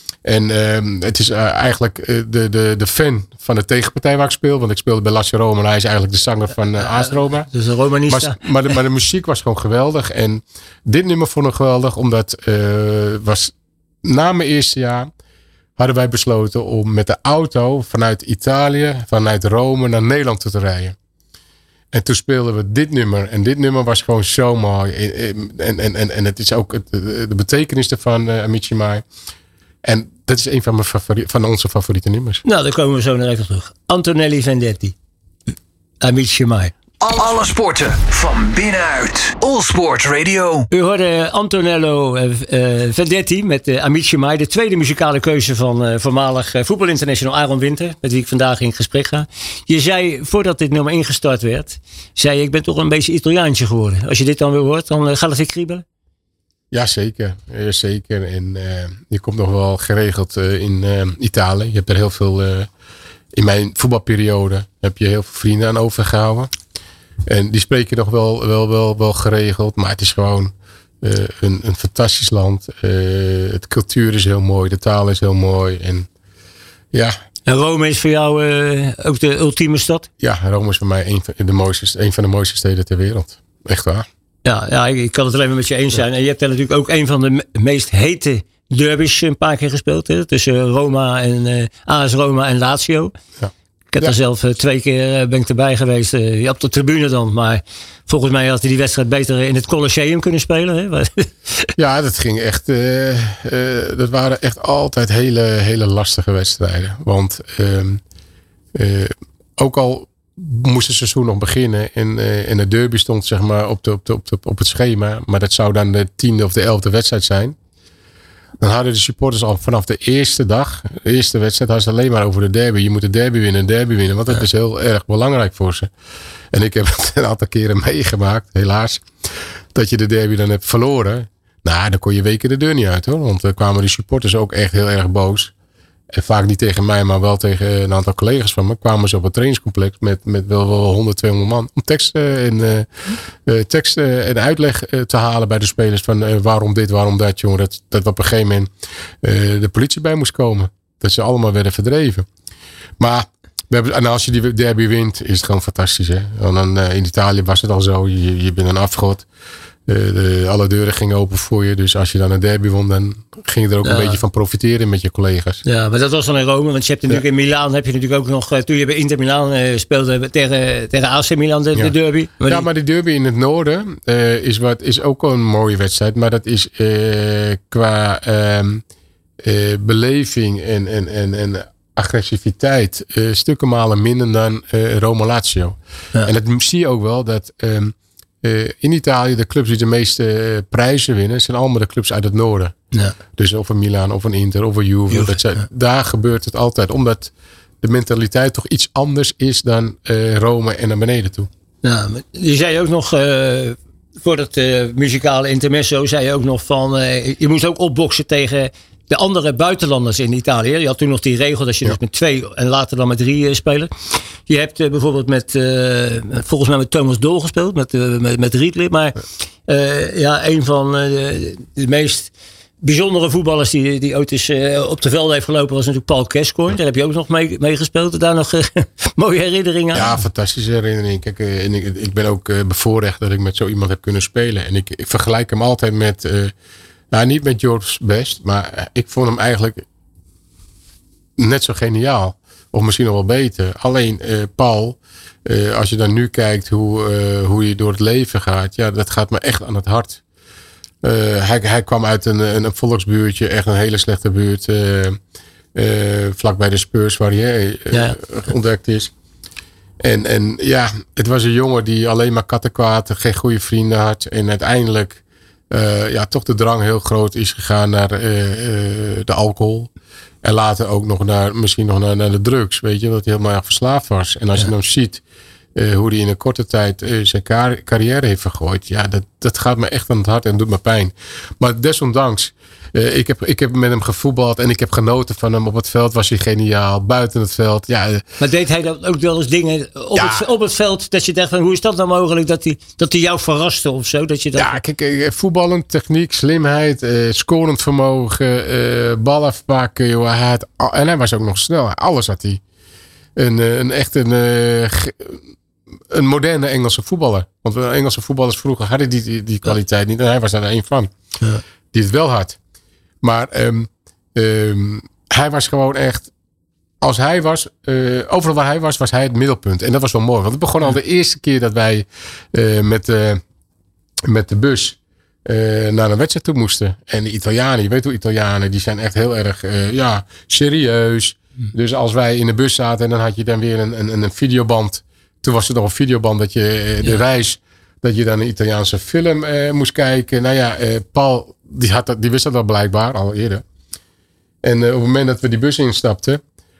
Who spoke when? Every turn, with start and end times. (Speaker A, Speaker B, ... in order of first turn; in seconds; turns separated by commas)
Speaker A: 0.2-7.5, Speaker B: 7.5-8.4, Speaker A: 8.1-13.5, Speaker A: 14.0-15.1, Speaker A: 15.8-20.9, Speaker A: 21.9-29.0, Speaker A: 29.8-32.4, Speaker B: 32.4-34.9, Speaker B: 36.0-36.7, Speaker C: 37.0-40.7, Speaker B: 40.7-55.8, Speaker A: 56.7-62.7, Speaker A: 63.3-66.5, Speaker A: 67.3-76.1, Speaker B: 77.5-80.1, Speaker A: 80.2-84.1, Speaker B: 84.4-93.1, Speaker A: 93.4-94.2, Speaker B: 93.9-101.7, Speaker A: 101.8-108.0, Speaker A: 108.7-117.5, Speaker A: 118.6-125.9, Speaker A: 126.5-129.1, Speaker A: 129.7-135.5, Speaker A: 136.1-148.7, Speaker A: 149.2-152.2, Speaker A: 153.0-159.2, Speaker A: 159.9-165.6, Speaker B: 163.8-164.2, Speaker B: 165.6-172.6, Speaker A: 172.5-178.8, Speaker A: 179.4-192.8, Speaker A: 193.3-201.5, Speaker B: 195.1-195.4, Speaker B: 201.8-213.9, Speaker B: 214.4-230.2, Speaker A: 229.9-236.5, Speaker A: 237.1-239.8, Speaker A: 241.4-250.2, Speaker A: 251.0-255.2, Speaker A: 255.7-259.1, Speaker B: 257.9-258.2, Speaker A: 260.0-269.9, Speaker A: 270.4-275.2, Speaker A: 275.8-288.3, Speaker B: 288.4-294.8, Speaker A: 290.1-290.5, Speaker A: 294.5-302.6, Speaker A: 303.4-305.4, Speaker A: 306.1-311.1, Speaker A: 311.9-312.6, Speaker A: 313.2-316.3, Speaker A: 317.0-323.4, Speaker A: 324.2-343.6, Speaker A: 344.6-346.4